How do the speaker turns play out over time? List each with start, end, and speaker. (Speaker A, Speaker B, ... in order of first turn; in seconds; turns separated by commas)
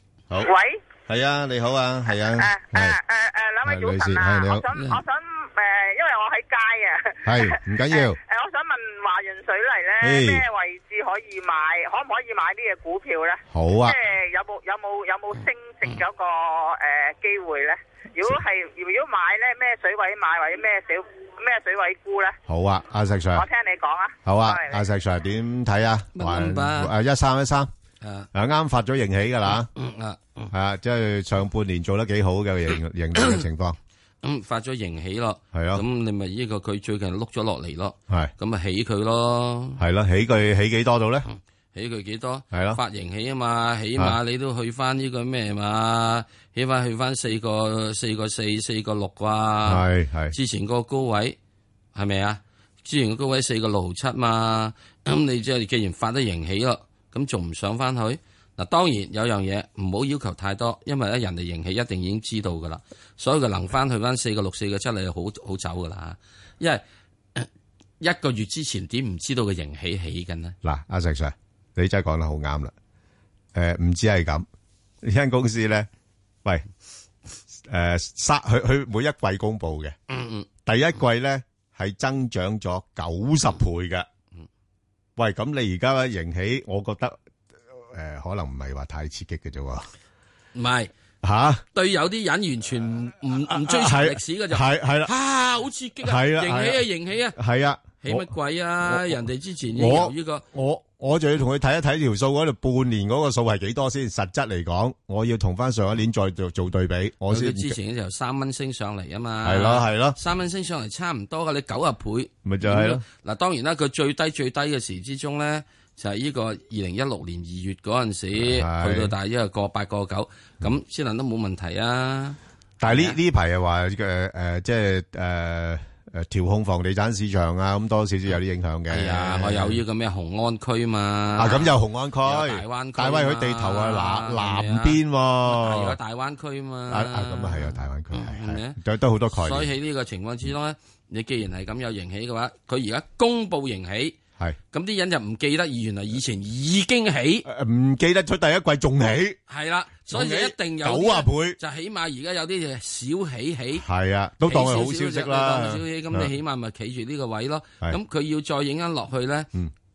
Speaker A: 0.4-0.8, Speaker B: 1.1-3.0, Speaker A: 2.4-22.4, Speaker B: 3.6-4.7, Speaker C: 4.7-5.0, Speaker B: 7.2-8.2, Speaker B: 10.0-10.4, Speaker B: 13.5-14.0, Speaker B: 22.5-23.5, Speaker A: 23.3-24.8, Speaker B: 24.2-27.7, Speaker C: 26.1-26.9, Speaker C: 28.0-28.3, Speaker B: 28.3-29.7, Speaker C: 29.5-30.5, Speaker B: 30.5-33.8, Speaker C: 34.2-39.8, Speaker B: 35.5-35.8, Speaker B: 39.8-41.3, Speaker C: 41.3-51.4, Speaker B: 42.5-42.8, Speaker B: 49.6-50.3, Speaker C: 51.9-66.8, Speaker C: 68.0-70.5, Speaker B: 70.6-72.7, Speaker B: 73.5-74.5, Speaker B: 75.0-75.9, Speaker B: 77.6-80.0, Speaker C: 80.1-80.5, Speaker B: 80.6-84.1, Speaker B: 85.2-87.2, Speaker B: 87.7-89.9, Speaker C: 90.5-90.9, Speaker B: 91.2-91.6, Speaker C: 91.7-97.3, Speaker B: 93.5-95.1, Speaker B: 96.0-99.2, Speaker C: 98.0-100.4, Speaker B: 99.7-107.8, Speaker C: 107.3-123.2, Speaker B: 109.4-110.2, Speaker B: 112.4-113.0, Speaker B: 118.3-119.1, Speaker B: 122.8-129.8, Speaker C: 128.9-138.8, Speaker B: 131.4-136.0, Speaker B: 136.9-139.7, Speaker C: 139.3-144.2, Speaker C: 144.7-147.4, Speaker B: 147.4-149.4, Speaker C: 149.5-153.8, Speaker B: 150.1-151.6, Speaker B: 153.7-156.3, Speaker C: 154.4-159.5